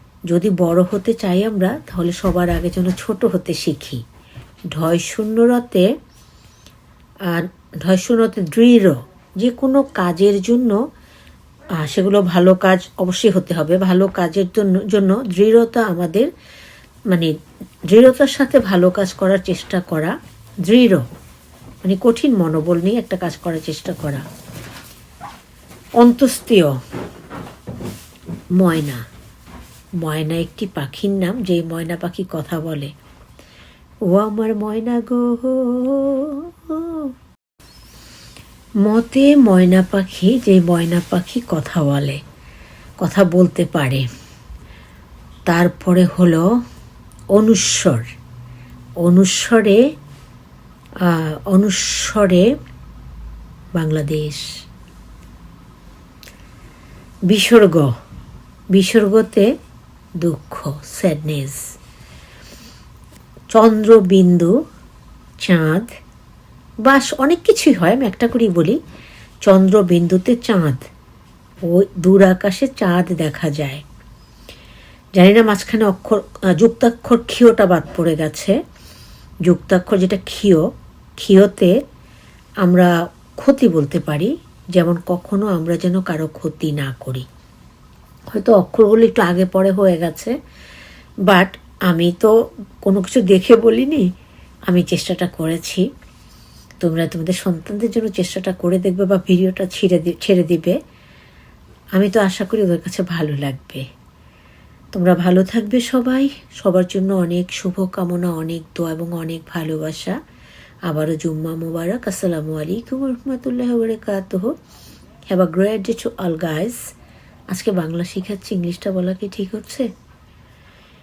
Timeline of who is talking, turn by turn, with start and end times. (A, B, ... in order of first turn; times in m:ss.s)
0:00.3-0:04.0 A
0:04.7-0:05.8 A
0:07.3-0:10.8 A
0:11.7-0:16.3 A
0:17.9-0:20.1 A
0:20.6-0:21.0 A
0:21.8-0:24.2 A
0:26.0-0:26.7 A
0:28.6-0:29.0 A
0:30.0-0:32.9 A
0:34.1-0:37.1 A
0:38.8-0:42.2 A
0:43.0-0:44.1 A
0:45.5-0:46.4 A
0:47.3-0:48.0 A
0:49.0-0:49.8 A
0:51.0-0:52.5 A
0:53.7-0:54.4 A
0:57.3-0:57.9 A
0:58.7-0:59.4 A
1:00.2-1:01.6 A
1:03.5-1:04.5 A
1:05.4-1:05.8 A
1:06.8-1:08.8 A
1:09.4-1:10.8 A
1:11.6-1:13.8 A
1:15.2-1:18.5 A
1:19.5-1:20.6 A
1:21.2-1:21.7 A
1:22.6-1:27.2 A
1:28.3-1:30.3 A
1:31.3-1:34.0 A
1:34.7-1:35.8 A
1:36.8-1:40.8 A
1:41.9-1:43.8 A
1:44.9-1:50.2 A
1:50.9-1:54.5 A
1:55.3-1:56.8 A
1:57.5-1:59.9 A